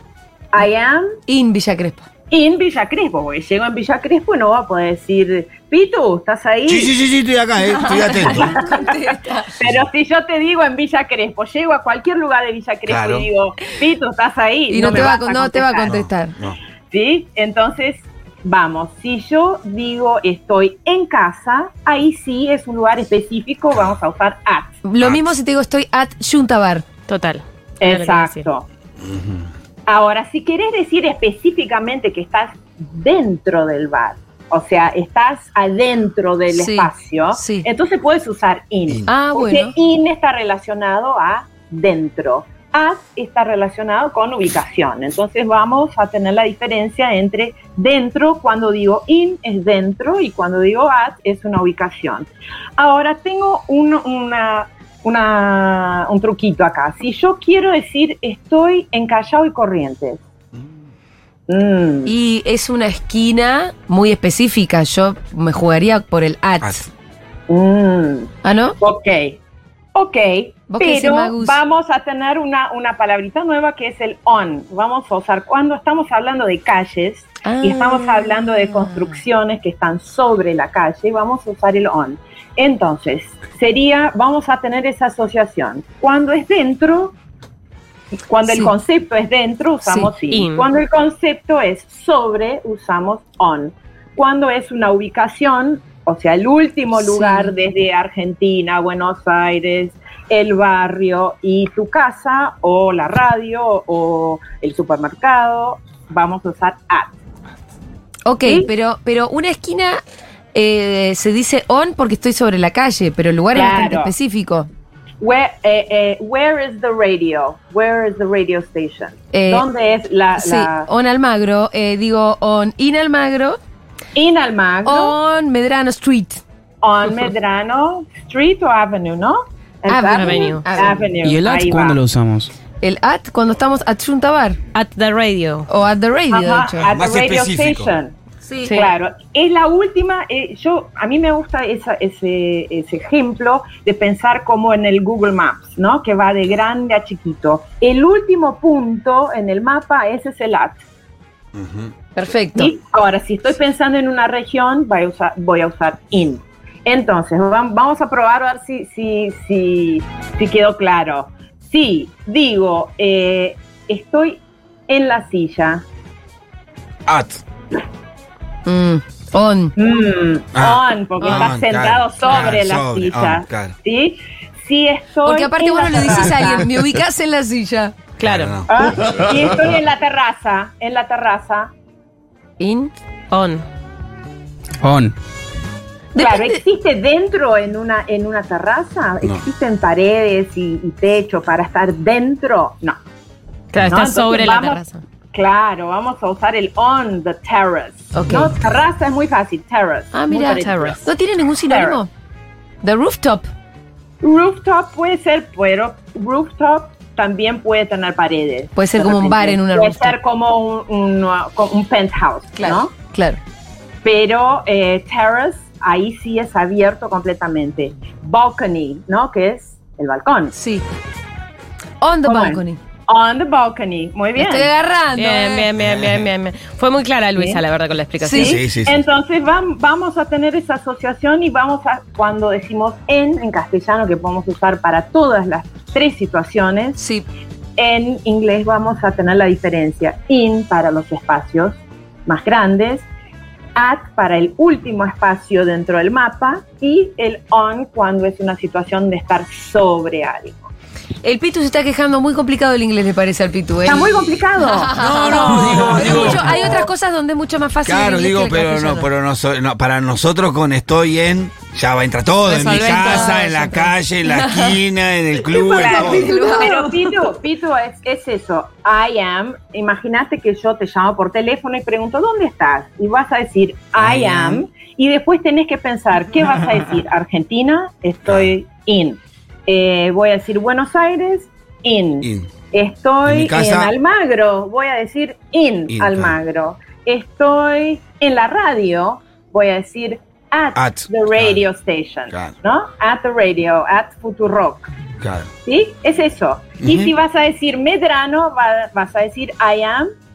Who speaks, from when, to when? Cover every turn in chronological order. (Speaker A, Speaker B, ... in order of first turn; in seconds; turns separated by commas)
Speaker A: 0.5-1.1, Speaker B: 1.3-2.0, Speaker A: 2.3-6.9, Speaker C: 6.7-8.6, Speaker B: 7.6-9.5, Speaker A: 8.2-9.0, Speaker A: 9.5-15.9, Speaker C: 12.9-13.3, Speaker B: 14.7-16.4, Speaker C: 14.8-15.2, Speaker C: 15.9-16.6, Speaker A: 16.9-24.7, Speaker B: 24.8-26.9, Speaker C: 25.0-25.3, Speaker D: 27.1-28.4, Speaker A: 27.8-28.7, Speaker A: 29.9-60.2, Speaker B: 36.5-37.7, Speaker B: 39.1-39.7, Speaker A: 61.5-62.1, Speaker B: 62.0-66.9, Speaker A: 67.5-69.4, Speaker B: 68.4-68.8, Speaker A: 70.0-87.2, Speaker B: 70.7-71.6, Speaker B: 77.4-78.5, Speaker A: 88.3-107.2, Speaker B: 88.5-88.7, Speaker B: 89.8-90.1, Speaker D: 90.3-90.7, Speaker B: 97.0-97.5, Speaker B: 108.3-110.0, Speaker A: 108.5-108.7, Speaker B: 110.5-114.7, Speaker A: 113.5-114.1, Speaker A: 115.2-120.9, Speaker B: 119.3-119.7, Speaker B: 120.4-123.6, Speaker A: 124.2-125.2, Speaker B: 124.8-126.4, Speaker A: 126.8-132.0, Speaker B: 129.9-131.0, Speaker D: 130.2-130.6, Speaker E: 131.2-132.5, Speaker B: 132.8-134.6, Speaker D: 134.7-135.7, Speaker B: 135.7-136.9, Speaker A: 136.3-150.8, Speaker C: 136.8-137.9, Speaker B: 138.4-138.8, Speaker C: 151.6-151.9, Speaker B: 152.2-152.7, Speaker A: 152.6-165.8, Speaker C: 167.1-167.4, Speaker B: 168.7-169.8, Speaker A: 169.8-176.7, Speaker C: 170.6-173.8, Speaker B: 171.2-171.5, Speaker B: 175.2-177.9, Speaker D: 178.2-178.6, Speaker C: 178.2-179.6, Speaker A: 178.7-181.7, Speaker B: 182.6-182.9, Speaker D: 183.3-183.7, Speaker E: 184.8-185.2, Speaker B: 186.1-186.6, Speaker A: 186.2-193.0, Speaker D: 193.7-195.0, Speaker A: 193.8-194.8, Speaker A: 195.3-201.1, Speaker B: 198.1-198.5, Speaker B: 200.1-202.1, Speaker A: 201.7-202.0, Speaker B: 202.8-203.5, Speaker A: 204.2-212.9, Speaker B: 208.8-210.2, Speaker B: 212.5-213.4, Speaker A: 214.0-220.6, Speaker B: 220.6-220.8, Speaker B: 222.0-222.8, Speaker A: 222.3-224.7, Speaker B: 224.4-225.7, Speaker D: 225.2-228.4, Speaker C: 225.8-226.2, Speaker A: 227.4-227.6, Speaker B: 228.2-228.6, Speaker C: 228.3-229.0, Speaker A: 228.3-237.0, Speaker B: 237.0-237.3, Speaker A: 237.8-243.1, Speaker A: 243.8-250.7, Speaker B: 251.2-259.1, Speaker A: 253.8-256.8, Speaker E: 255.1-256.2, Speaker C: 255.5-256.4, Speaker C: 257.9-266.4, Speaker D: 262.5-263.4, Speaker B: 262.8-264.8, Speaker A: 265.4-294.9, Speaker B: 265.8-267.1, Speaker C: 274.0-274.6, Speaker C: 278.3-278.5, Speaker C: 282.2-282.5, Speaker C: 283.3-283.9, Speaker C: 285.9-286.4, Speaker C: 290.8-291.6, Speaker C: 295.2-295.5, Speaker A: 295.6-300.1, Speaker C: 296.8-297.1